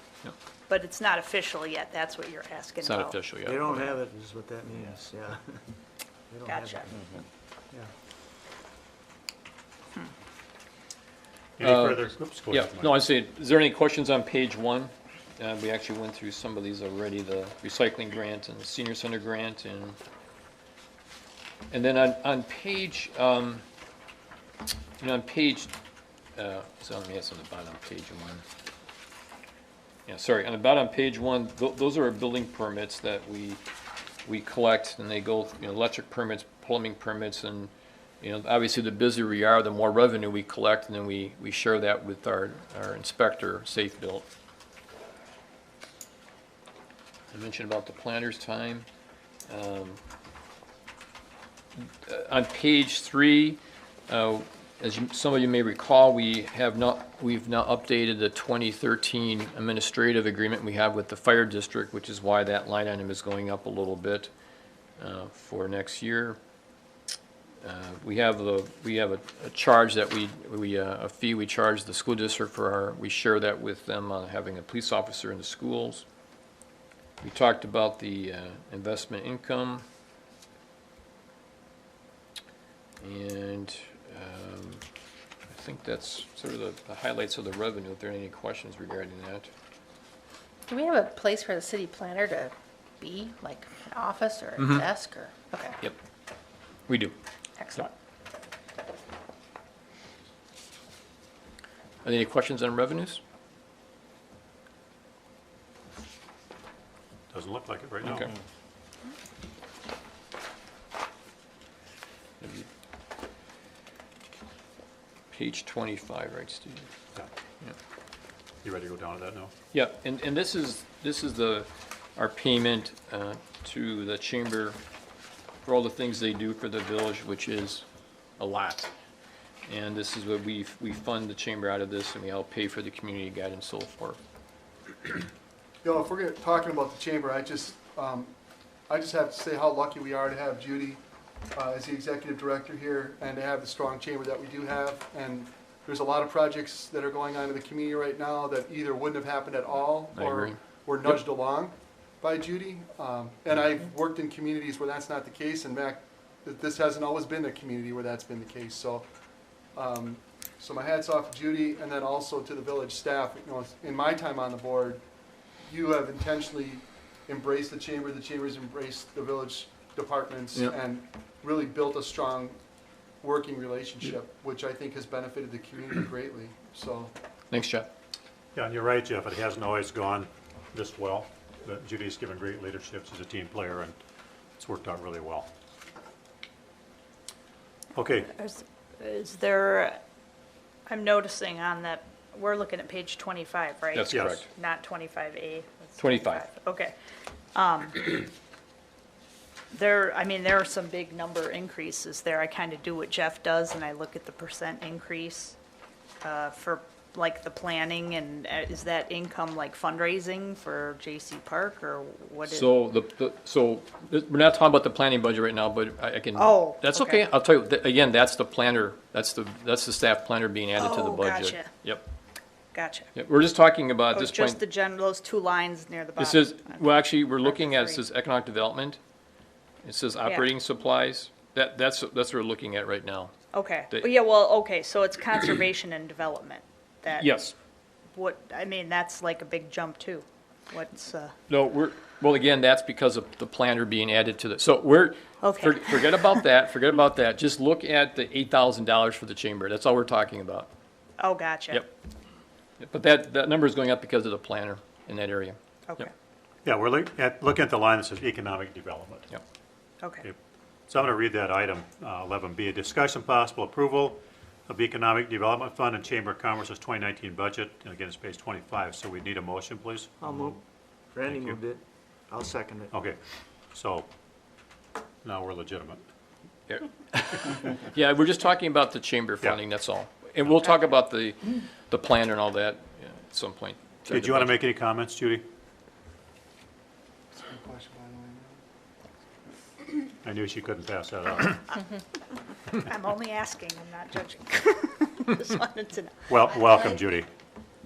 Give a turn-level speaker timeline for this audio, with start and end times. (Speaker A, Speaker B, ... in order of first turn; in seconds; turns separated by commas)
Speaker A: 0.7-3.2, Speaker B: 2.8-4.0, Speaker C: 3.4-5.4, Speaker C: 6.3-7.0, Speaker A: 6.5-6.9, Speaker D: 11.6-13.0, Speaker B: 11.6-20.0, Speaker B: 21.7-23.6, Speaker B: 25.0-25.7, Speaker B: 26.4-28.4, Speaker B: 30.1-33.6, Speaker B: 34.2-44.3, Speaker B: 47.3-48.9, Speaker B: 49.5-50.0, Speaker B: 51.8-64.3, Speaker B: 65.0-66.4, Speaker B: 67.6-76.0, Speaker B: 77.2-79.8, Speaker B: 83.0-84.8, Speaker B: 85.5-89.5, Speaker E: 90.7-95.8, Speaker B: 94.6-94.8, Speaker B: 96.9-97.2, Speaker E: 97.6-97.9, Speaker B: 102.0-103.2, Speaker D: 107.3-108.3, Speaker B: 108.0-108.3, Speaker B: 112.4-112.7, Speaker B: 115.3-116.9, Speaker D: 118.6-119.5, Speaker B: 119.7-124.8, Speaker B: 125.7-127.8, Speaker B: 128.4-128.9, Speaker B: 129.7-134.2, Speaker F: 135.8-138.3, Speaker F: 138.9-141.0, Speaker F: 141.5-159.1, Speaker B: 150.1-150.6, Speaker F: 159.8-165.0, Speaker F: 165.6-172.6, Speaker F: 173.2-177.1, Speaker B: 177.5-177.9, Speaker D: 178.6-184.0, Speaker D: 184.6-185.5, Speaker D: 187.9-188.3, Speaker A: 188.3-190.0, Speaker A: 190.9-196.9, Speaker B: 193.9-194.5, Speaker D: 194.1-194.4, Speaker B: 196.0-196.5, Speaker A: 197.5-198.3, Speaker A: 199.7-205.6, Speaker A: 206.2-212.8, Speaker B: 212.5-222.0, Speaker A: 216.4-217.2, Speaker A: 220.8-221.7, Speaker A: 222.7-223.1, Speaker B: 223.2-224.6, Speaker A: 224.1-228.0, Speaker B: 226.2-229.0, Speaker B: 229.8-233.3, Speaker A: 233.5-237.4, Speaker B: 237.2-237.6, Speaker A: 238.1-241.3, Speaker B: 241.5-250.7, Speaker A: 245.4-246.3, Speaker A: 251.2-251.8, Speaker B: 252.8-256.1, Speaker D: 256.6-259.3, Speaker A: 260.0-260.3, Speaker D: 260.9-270.6, Speaker C: 270.2-270.6, Speaker C: 271.1-272.9, Speaker D: 271.2-271.6, Speaker D: 272.9-273.2, Speaker D: 273.7-274.1, Speaker D: 275.2-276.0, Speaker B: 276.7-284.6, Speaker D: 284.1-285.5, Speaker F: 287.3-288.6, Speaker D: 290.2-291.7, Speaker A: 292.7-296.4, Speaker D: 296.3-297.3